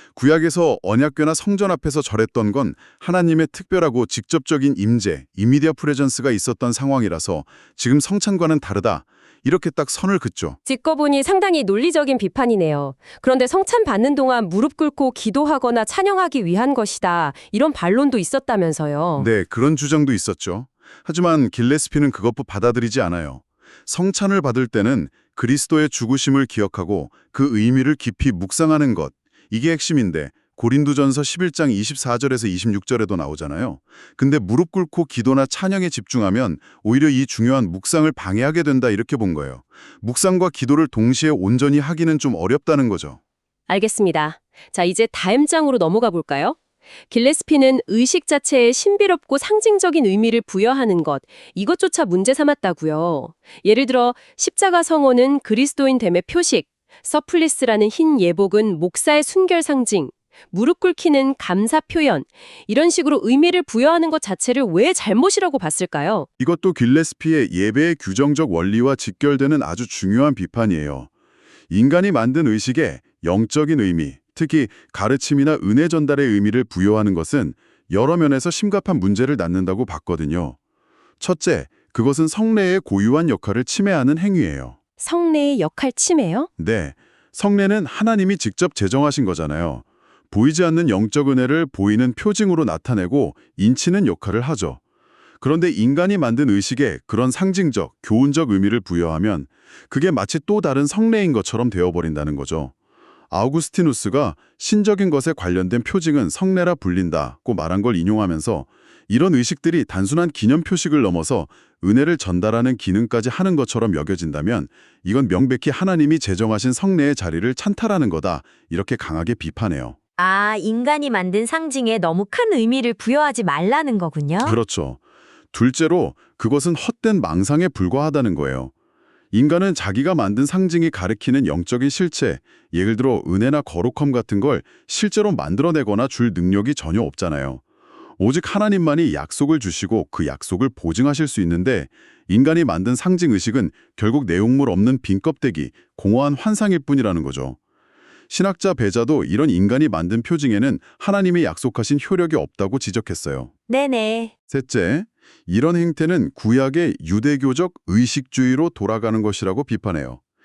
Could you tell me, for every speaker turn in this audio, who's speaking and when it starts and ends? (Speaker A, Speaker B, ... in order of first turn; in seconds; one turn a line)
Speaker A: 0.1-10.6
Speaker B: 10.7-19.3
Speaker A: 19.2-43.2
Speaker B: 43.7-46.6
Speaker B: 47.1-66.3
Speaker A: 66.4-71.1
Speaker A: 71.7-80.6
Speaker A: 81.2-84.8
Speaker B: 85.0-86.5
Speaker A: 86.6-94.8
Speaker A: 95.4-102.7
Speaker A: 103.3-120.0
Speaker C: 120.2-124.6
Speaker A: 124.4-125.0
Speaker A: 125.5-128.7
Speaker A: 129.3-137.6
Speaker A: 138.2-147.6
Speaker A: 148.3-153.5
Speaker C: 153.7-154.3
Speaker A: 154.5-160.2